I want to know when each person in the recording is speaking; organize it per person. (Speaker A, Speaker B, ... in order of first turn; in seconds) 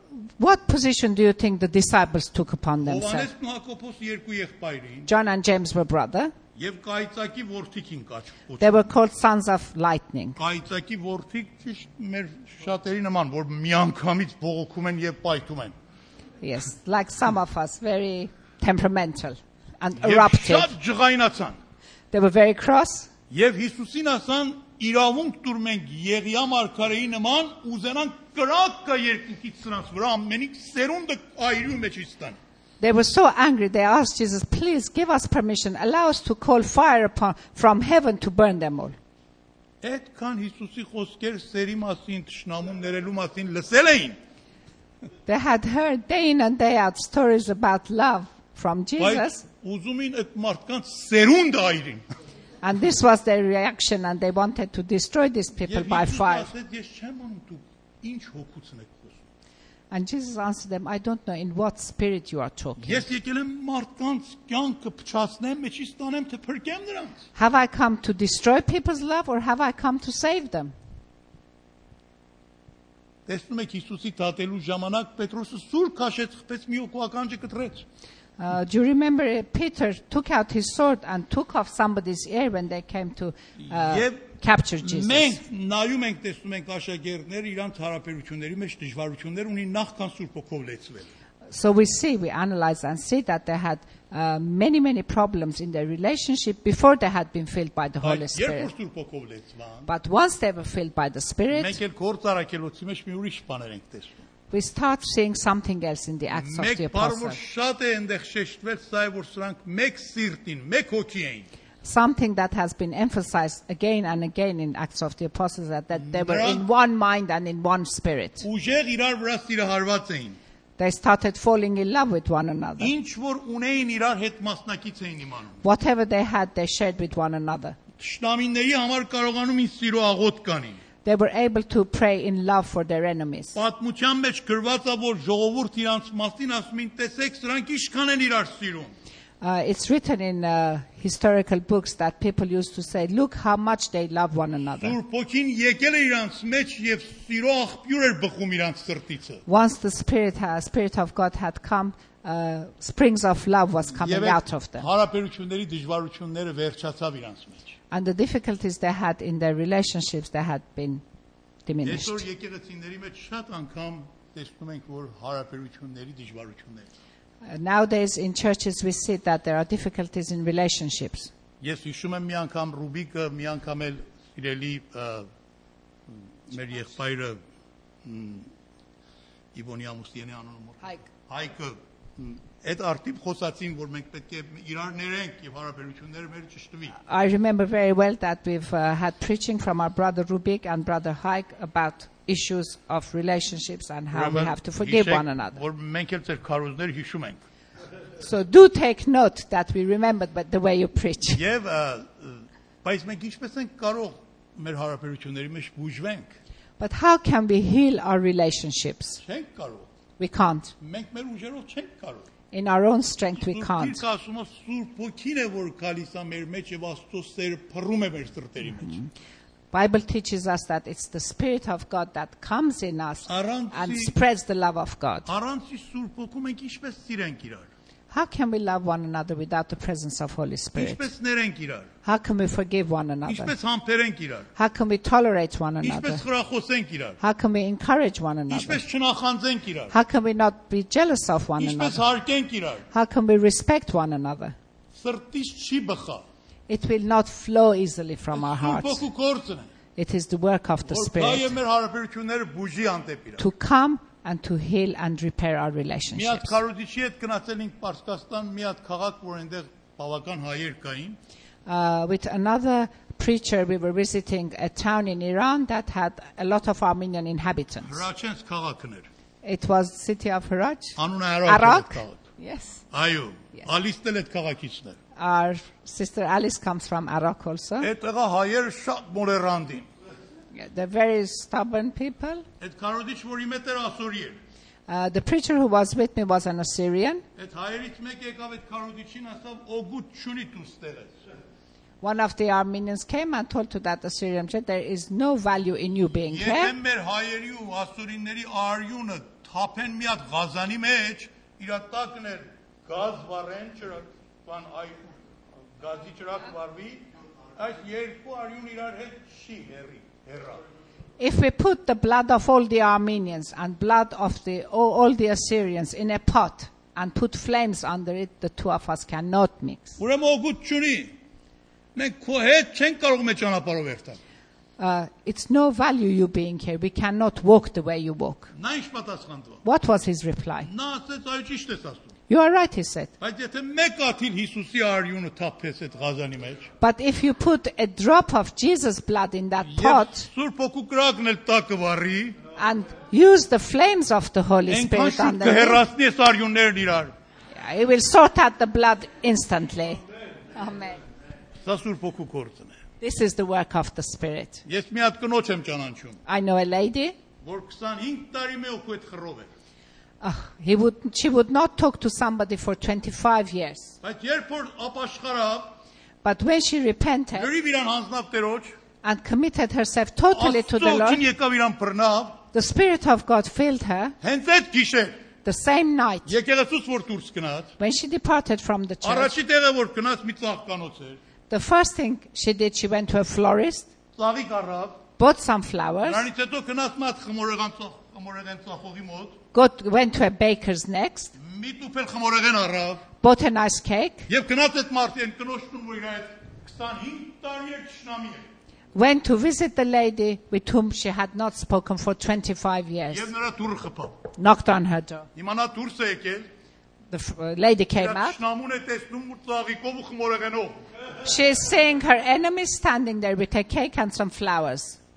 Speaker A: 0.4-3.3, 5.1-6.3, 8.6-10.4, 16.4-20.7, 22.1-23.1, 32.8-39.0, 45.3-49.4, 52.6-56.5, 59.9-63.1, 67.4-70.7, 78.4-85.4, 91.5-98.7, 99.9-101.8, 104.5-107.4, 111.8-118.5, 120.8-122.9, 125.6-127.8, 131.0-133.6, 139.4-145.0, 149.5-154.9, 157.9-161.0, 161.7-162.2, 167.4-171.3, 187.0-195.6, 198.2-201.4, 206.8-209.2, 210.2-210.7, 212.5-214.0, 218.8-219.1, 219.7-225.3, 228.1-231.0, 232.0-233.5, 234.6-236.2, 237.2-238.8, 239.9-242.0, 242.9-244.6, 246.7-249.0, 250.0-251.6, 253.4-256.6, 261.7-268.0, 269.4-272.9, 275.2-277.9, 280.5-282.4, 284.9-287.2, 292.0-296.7, 311.2-320.0, 324.8-328.5, 329.6-330.7, 332.3-333.1, 336.8-340.3, 342.6-345.8, 347.5-350.0, 350.5-351.0, 353.0-354.6, 356.3-357.2, 360.2-363.9, 366.2-367.5, 369.0-371.2, 372.5-374.2, 375.4-376.3, 377.8-379.4, 381.5-383.9, 385.2-386.2, 389.5-391.3, 393.2-394.3, 398.9-403.3, 404.4-405.3, 407.1-408.4, 411.2-415.0
Speaker B: 2.8-5.1, 6.6-8.9, 10.4-15.7, 20.0-21.6, 23.3-32.4, 39.8-44.2, 49.0-52.0, 55.6-59.2, 62.8-67.2, 73.3-77.8, 83.7-84.2, 84.8-91.1, 98.0-99.9, 101.5-104.2, 106.3-111.5, 116.0-116.7, 118.4-120.4, 122.8-125.6, 128.0-130.8, 133.6-138.9, 144.8-149.4, 154.0-157.7, 161.8-166.9, 171.6-175.3, 176.1-177.4, 178.0-178.5, 179.5-187.0, 194.1-197.4, 201.3-206.4, 209.2-209.9, 210.8-212.3, 213.3-219.0, 223.3-224.2, 225.3-227.7, 230.8-231.9, 233.3-234.5, 235.8-237.2, 238.5-239.9, 241.6-242.8, 245.0-246.2, 248.3-249.7, 250.9-253.4, 256.1-261.2, 267.8-269.1, 271.0-272.2, 272.9-275.0, 277.8-279.9, 282.6-284.4, 287.4-291.2, 296.3-305.2, 305.8-307.1, 307.6-310.6, 320.0-321.1, 321.9-324.2, 328.5-329.6, 330.6-332.1, 333.2-336.7, 339.6-342.4, 344.7-347.1, 351.6-352.8, 354.6-356.2, 357.4-359.5, 364.0-365.7, 367.4-368.7, 370.3-372.4, 374.2-375.2, 376.3-377.7, 379.0-381.2, 384.2-385.0, 386.1-389.4, 391.4-393.1, 394.3-398.4, 403.1-404.2, 405.4-406.5, 408.0-410.8